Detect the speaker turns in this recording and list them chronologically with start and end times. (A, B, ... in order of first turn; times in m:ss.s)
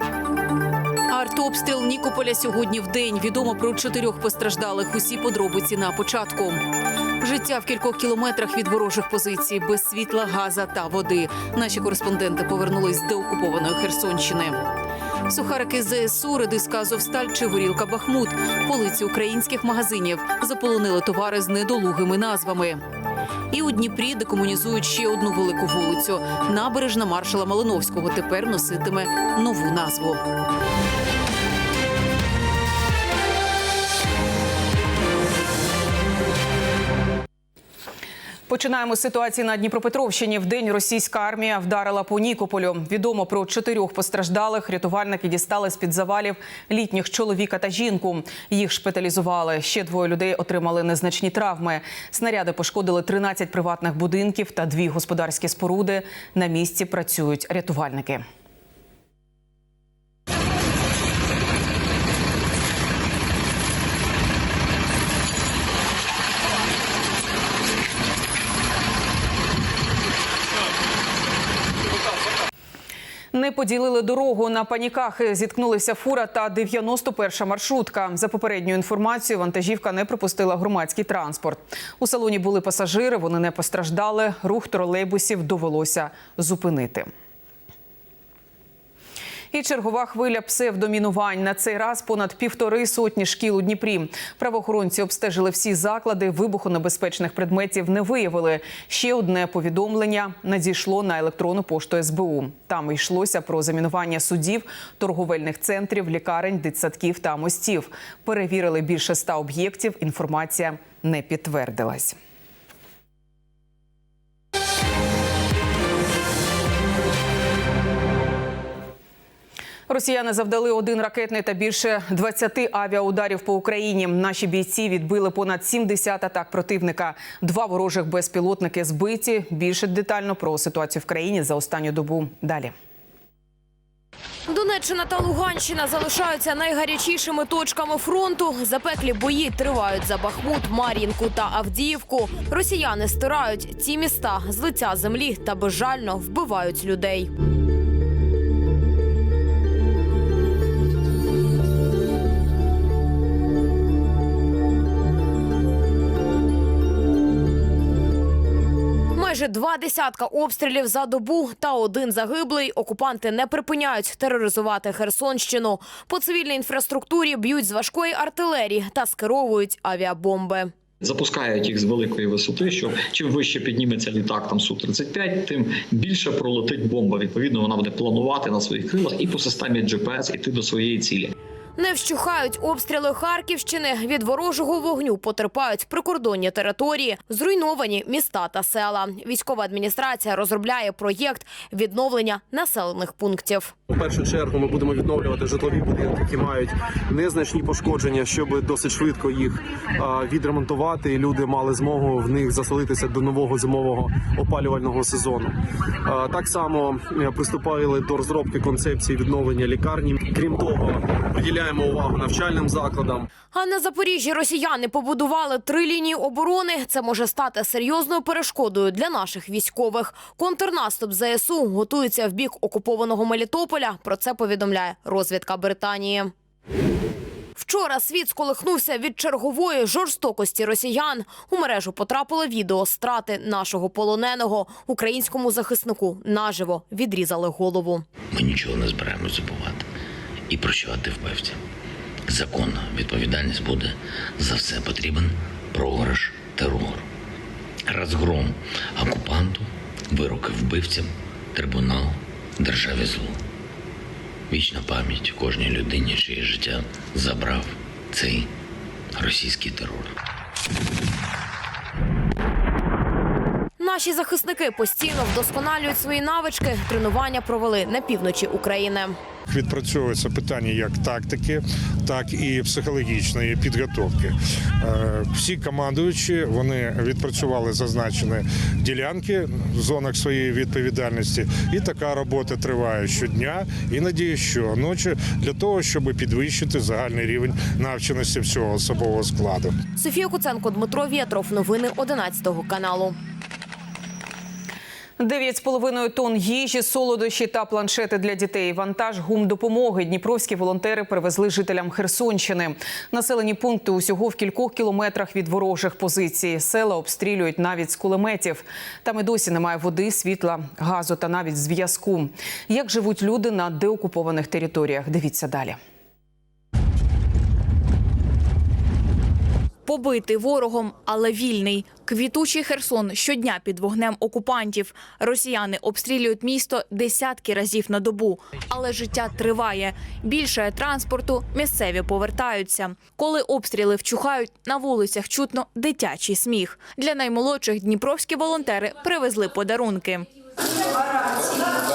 0:01.1-0:06.6 A
0:07.2-0:14.6 A
0:15.3-0:22.8 A
0:23.5-0:30.2 A
0:38.5-0:58.2 B
1:13.3-1:27.1 B
1:29.5-1:52.2 B
1:59.9-2:12.7 B
2:14.5-2:27.3 C
2:39.1-2:50.7 C
2:51.0-3:01.3 D
3:01.8-3:13.7 C
3:13.9-3:33.3 E
3:33.5-3:46.3 C
3:47.6-3:58.0 C
3:58.3-3:59.8 F
4:00.5-4:01.6 F
4:02.3-4:07.0 F
4:07.8-4:13.4 F
4:14.5-4:18.5 F
4:19.1-4:20.1 F
4:23.8-4:29.2 C
4:29.5-4:49.7 G
4:50.0-4:53.2 C
4:55.2-5:15.8 B
5:19.8-5:40.3 H